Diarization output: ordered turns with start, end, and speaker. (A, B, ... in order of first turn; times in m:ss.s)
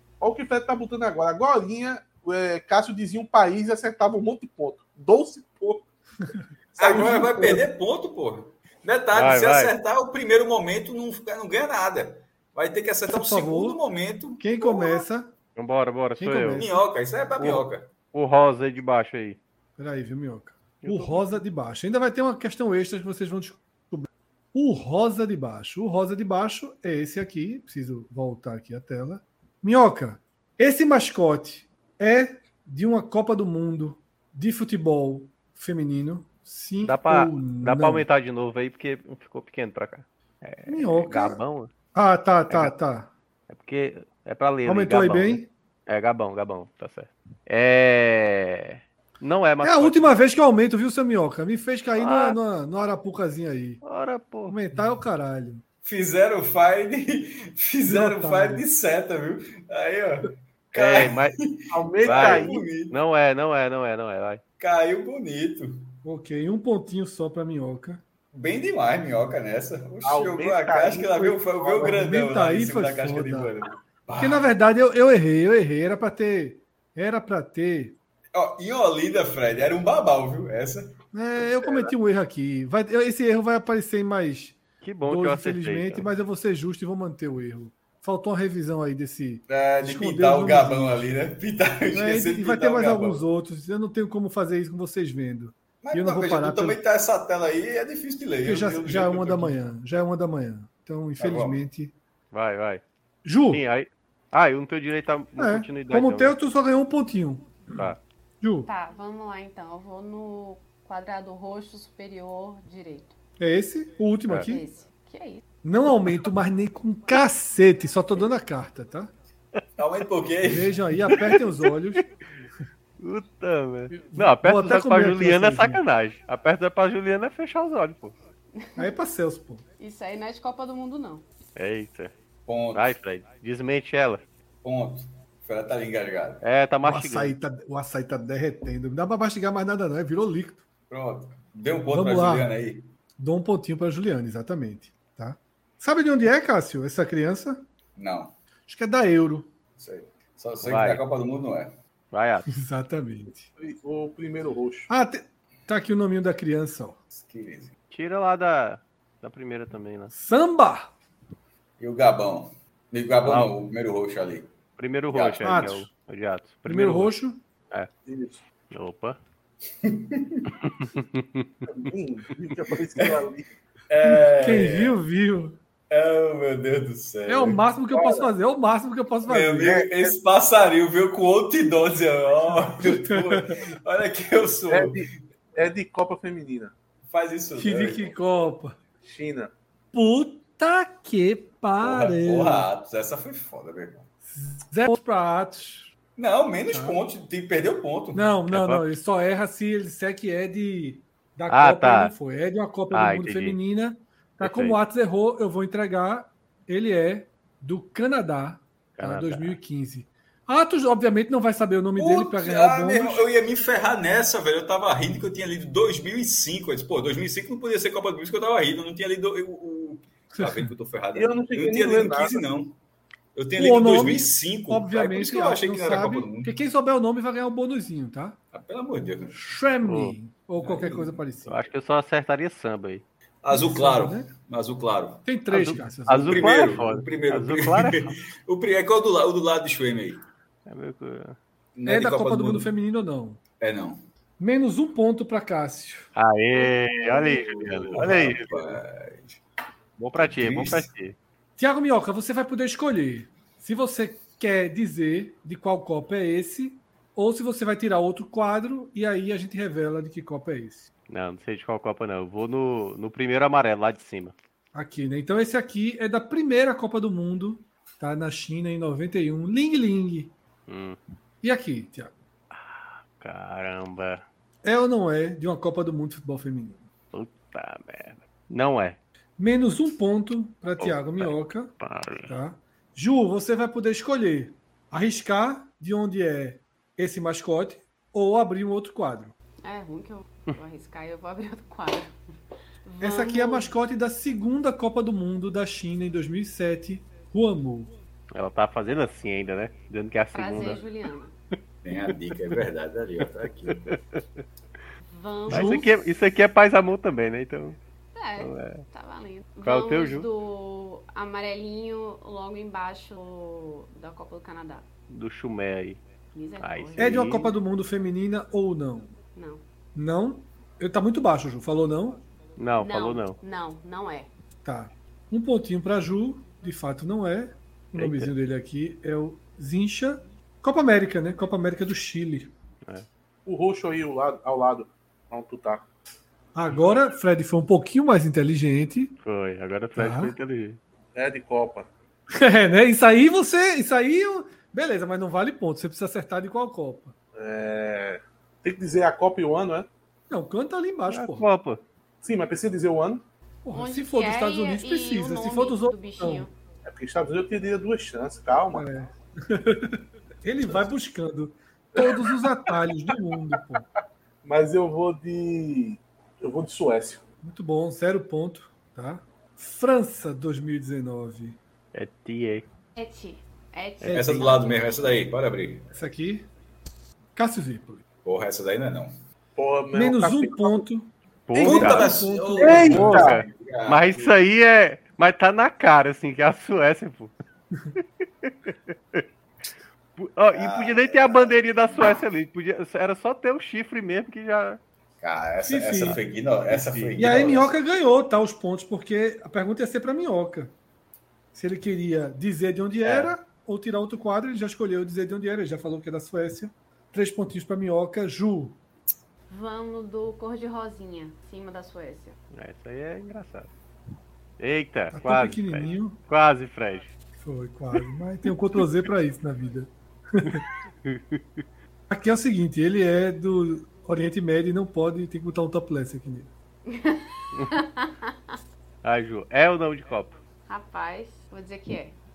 0:00.2-0:05.9 A
0:06.8-0:07.6 A
0:06.8-0:15.0 B
0:09.1-0:09.7 C
0:13.1-0:13.8 D
0:14.4-0:15.3 D
0:15.6-0:16.7 C
0:16.2-0:16.7 D
0:16.5-0:17.9 B
0:17.4-0:19.4 C
0:19.8-0:38.1 D
0:20.8-0:21.4 C
0:36.8-0:41.7 C
0:40.7-0:41.4 D
0:41.9-0:43.1 D
0:43.5-0:50.1 C
0:44.7-0:45.5 D
0:49.6-0:53.8 D
0:52.0-0:52.4 C
0:53.8-0:54.6 C
0:54.5-0:55.6 D
0:55.8-1:03.0 B
0:57.8-0:58.6 D
1:00.7-1:01.4 C
1:01.7-1:02.7 A
1:02.0-1:04.4 C
1:04.6-1:05.8 B
1:06.0-1:08.0 D
1:08.3-1:14.5 B
1:10.0-1:11.9 A
1:11.8-1:13.5 D
1:14.2-1:18.0 D
1:18.3-1:21.0 B
1:21.1-1:31.1 D
1:24.8-1:26.1 C
1:29.5-1:33.2 B
1:31.9-1:36.8 D
1:35.8-1:39.7 B
1:38.4-1:41.9 D
1:41.2-1:41.6 B
1:42.3-1:42.8 C
1:43.2-1:43.6 D
1:43.5-1:46.4 C
1:45.4-1:48.7 D
1:48.7-1:53.1 E
1:53.4-1:54.6 D
1:54.5-1:55.4 E
1:55.6-1:59.1 D
1:59.8-2:00.8 B
2:00.4-2:02.0 D
2:01.1-2:01.4 C
2:03.0-2:08.2 C
2:03.9-2:05.8 D
2:08.6-2:08.8 E
2:08.8-2:09.6 D
2:09.8-2:11.2 E
2:11.6-2:12.1 C
2:12.5-2:13.0 B
2:12.7-2:14.2 C
2:14.6-2:16.4 B
2:16.4-2:17.4 C
2:16.8-2:20.6 D
2:20.9-2:22.9 B
2:21.9-2:22.5 D
2:23.2-2:27.7 D
2:28.0-2:28.4 B
2:28.7-2:29.5 D
2:29.8-2:31.8 B
2:30.6-2:31.0 C
2:32.1-2:32.5 C
2:32.5-2:33.5 D
2:33.6-2:34.9 A
2:34.9-2:37.0 D
2:37.1-2:37.7 B
2:37.9-2:40.1 C
2:40.1-2:40.9 D
2:41.8-2:44.5 B
2:43.2-2:43.6 C
2:44.8-2:47.2 C
2:45.1-2:45.8 B
2:45.4-2:45.9 D
2:46.7-2:47.4 D
2:48.1-2:48.4 A
2:48.7-2:49.2 C
2:49.8-2:50.5 B
2:50.7-2:51.5 C
2:51.7-2:53.5 A
2:53.9-2:55.0 B
2:54.3-2:55.6 D
2:55.9-2:57.6 B
2:57.3-2:59.8 D
2:57.9-2:58.3 A
2:59.3-3:05.1 B
3:02.9-3:03.6 D
3:04.7-3:06.7 A
3:07.1-3:08.1 B
3:07.6-3:08.8 D
3:09.0-3:09.5 A
3:09.9-3:12.7 D
3:11.8-3:14.1 B
3:14.3-3:15.9 D
3:16.2-3:18.3 B
3:16.7-3:17.0 D
3:18.1-3:33.3 D
3:18.5-3:18.8 C
3:21.5-3:22.1 C
3:22.9-3:23.6 C
3:24.4-3:24.8 C
3:29.0-3:29.6 C
3:32.0-3:42.8 B
3:40.4-3:40.7 D
3:41.2-3:42.4 A
3:43.4-3:46.6 B
3:43.6-3:48.4 D
3:48.5-3:49.4 B
3:49.3-3:51.7 D
3:49.8-3:50.2 C
3:51.5-3:53.0 C
3:53.4-3:55.3 B
3:53.5-3:54.3 D
3:55.3-3:56.5 D
3:55.5-3:58.2 C
3:56.1-4:00.3 B
4:00.7-4:01.4 C
4:01.8-4:02.7 B
4:01.9-4:03.4 D
4:03.6-4:04.0 B
4:04.4-4:06.1 D
4:06.2-4:08.8 C
4:07.2-4:09.4 B
4:10.0-4:11.2 C
4:10.2-4:10.9 B
4:11.6-4:20.9 D
4:21.1-4:24.4 C
4:24.7-4:30.3 D
4:30.7-4:31.0 C
4:31.4-4:32.1 D
4:32.5-4:34.2 C
4:34.6-4:36.9 D
4:37.1-4:39.0 C
4:39.4-4:41.8 D
4:40.8-4:42.4 C
4:42.3-4:49.3 D
4:49.6-4:52.1 E
4:52.8-4:53.7 E
4:53.0-4:57.9 D
4:58.4-5:00.8 C
5:00.3-5:01.3 E
5:01.8-5:04.0 B
5:03.7-5:04.2 C
5:05.1-5:05.8 E
5:05.5-5:05.9 D
5:05.5-5:07.8 C
5:08.2-5:14.9 E
5:08.4-5:08.8 C
5:09.6-5:10.3 C
5:15.1-5:16.0 C
5:16.3-5:17.3 E
5:16.6-5:17.6 C
5:17.0-5:19.1 D
5:19.4-5:19.6 E
5:20.0-5:22.2 D
5:22.6-5:23.4 C
5:22.8-5:24.3 E
5:24.6-5:32.5 D
5:28.0-5:28.3 C
5:33.5-5:35.9 A
5:36.5-5:39.2 D
5:39.2-5:40.8 C
5:40.0-5:40.4 D
5:41.2-5:41.9 A
5:42.3-5:47.1 D
5:47.4-5:49.9 A
5:50.3-5:51.5 D
5:51.1-5:51.8 C
5:52.2-5:53.2 A
5:53.6-5:56.5 D
5:53.8-5:56.5 E
5:56.8-5:58.9 A
5:58.7-6:03.8 D
6:02.0-6:02.3 A
6:04.4-6:07.2 A
6:07.4-6:11.6 D
6:11.9-6:12.7 C
6:13.0-6:14.8 E
6:14.0-6:14.5 D
6:14.1-6:15.9 B
6:15.9-6:16.5 D
6:17.4-6:18.0 D
6:18.2-6:19.1 B
6:19.6-6:20.8 A
6:19.9-6:23.2 D
6:21.5-6:22.1 C
6:21.6-6:22.0 A
6:21.6-6:24.4 B
6:22.6-6:23.4 A
6:22.8-6:27.3 C
6:28.4-6:29.2 C
6:30.2-6:34.8 C
6:30.5-6:32.2 B
6:35.2-6:37.7 B
6:35.6-6:36.2 D
6:36.7-6:37.3 C
6:37.2-6:40.7 D
6:41.5-6:48.8 D
6:43.0-6:43.3 C
6:49.5-6:52.4 E
6:52.5-6:53.7 C
6:54.6-6:57.1 C
6:55.1-6:56.2 D
6:57.4-7:00.6 D
7:00.4-7:01.6 C
7:02.1-7:06.5 D
7:06.9-7:08.6 E
7:07.5-7:07.8 C
7:09.0-7:10.4 C
7:10.7-7:12.2 E